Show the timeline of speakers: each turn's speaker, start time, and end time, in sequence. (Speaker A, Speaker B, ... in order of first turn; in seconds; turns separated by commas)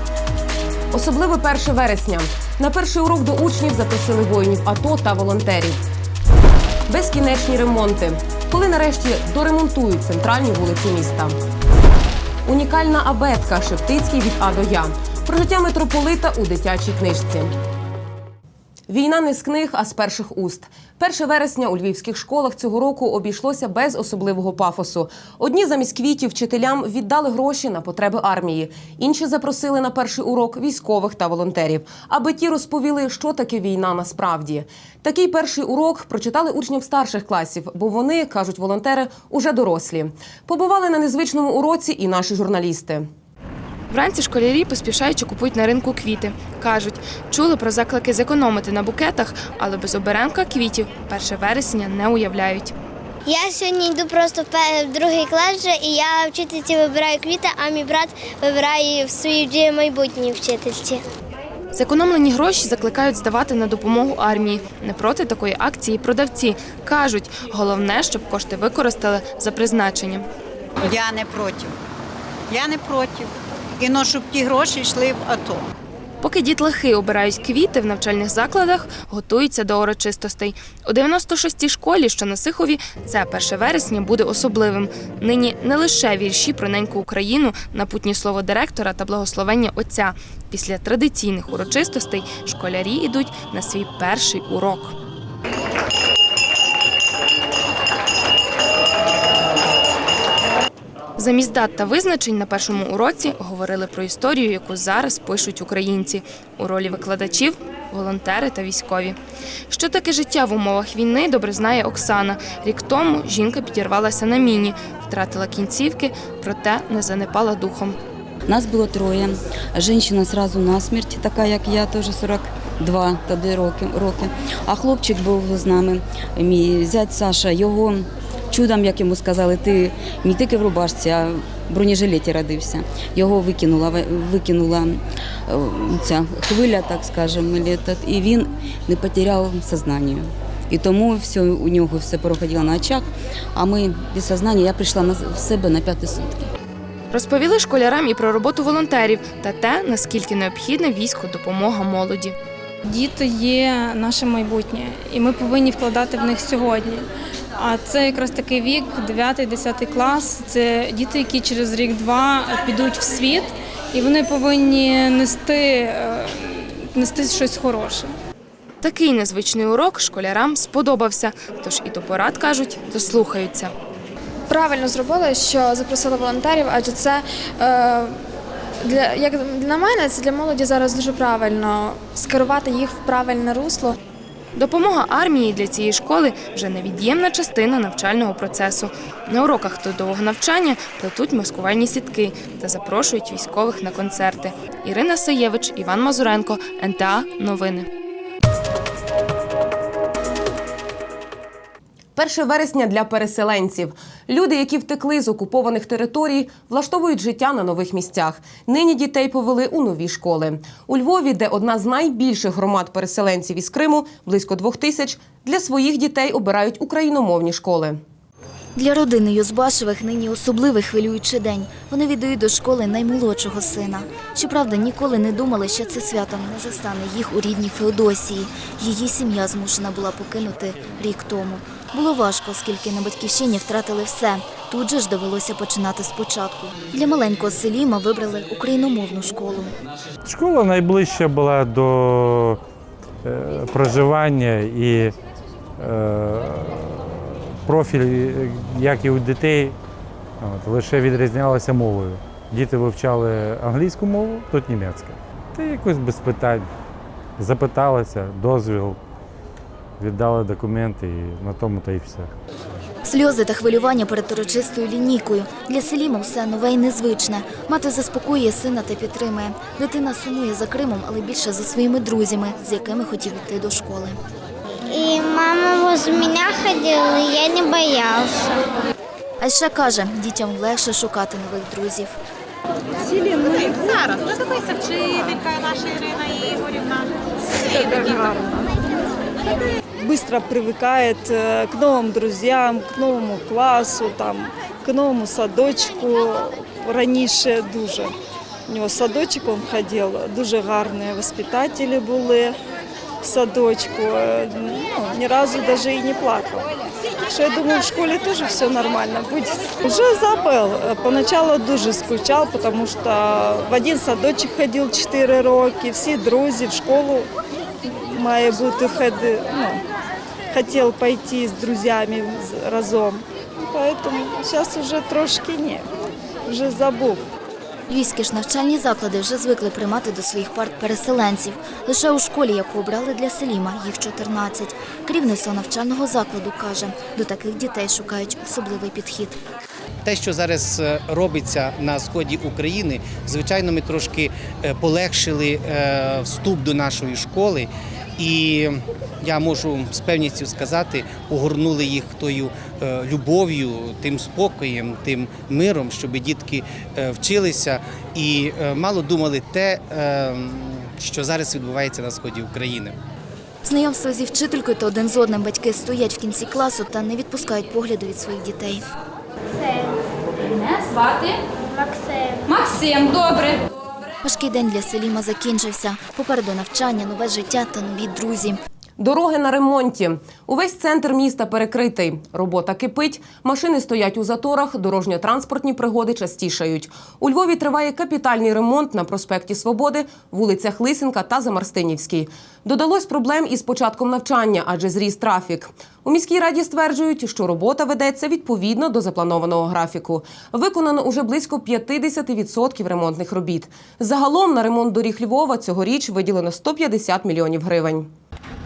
Speaker A: 0.9-5.8, Speaker A: 6.9-11.4, Speaker A: 12.4-17.5, Speaker A: 18.9-43.1, Speaker B: 43.9-52.7, Speaker C: 53.3-61.0, Speaker B: 61.8-70.3, Speaker D: 70.8-71.7, Speaker D: 72.5-73.3, Speaker D: 73.8-75.6, Speaker B: 76.2-94.9, Speaker B: 101.2-109.2, Speaker B: 109.7-118.0, Speaker E: 118.5-146.4, Speaker B: 147.1-152.3, Speaker F: 152.8-157.1, Speaker F: 157.6-168.1, Speaker B: 168.8-173.7, Speaker G: 174.5-178.2, Speaker G: 178.8-184.0, Speaker B: 184.6-197.9, Speaker A: 202.2-218.0, Speaker H: 218.8-239.7, Speaker I: 240.2-242.6, Speaker I: 243.2-245.2, Speaker I: 245.8-249.8, Speaker I: 250.4-256.7, Speaker I: 257.4-259.0, Speaker I: 260.0-262.3, Speaker H: 263.1-274.2, Speaker C: 274.9-278.5, Speaker H: 279.4-282.1, Speaker J: 287.6-288.7, Speaker J: 290.0-298.1, Speaker J: 298.7-302.6, Speaker J: 303.2-317.3, Speaker J: 317.8-319.8, Speaker J: 320.5-325.9, Speaker J: 326.5-327.2, Speaker H: 327.9-339.4, Speaker K: 340.1-362.9, Speaker H: 363.6-368.9, Speaker C: 371.7-372.4, Speaker H: 374.2-378.6, Speaker A: 379.0-408.1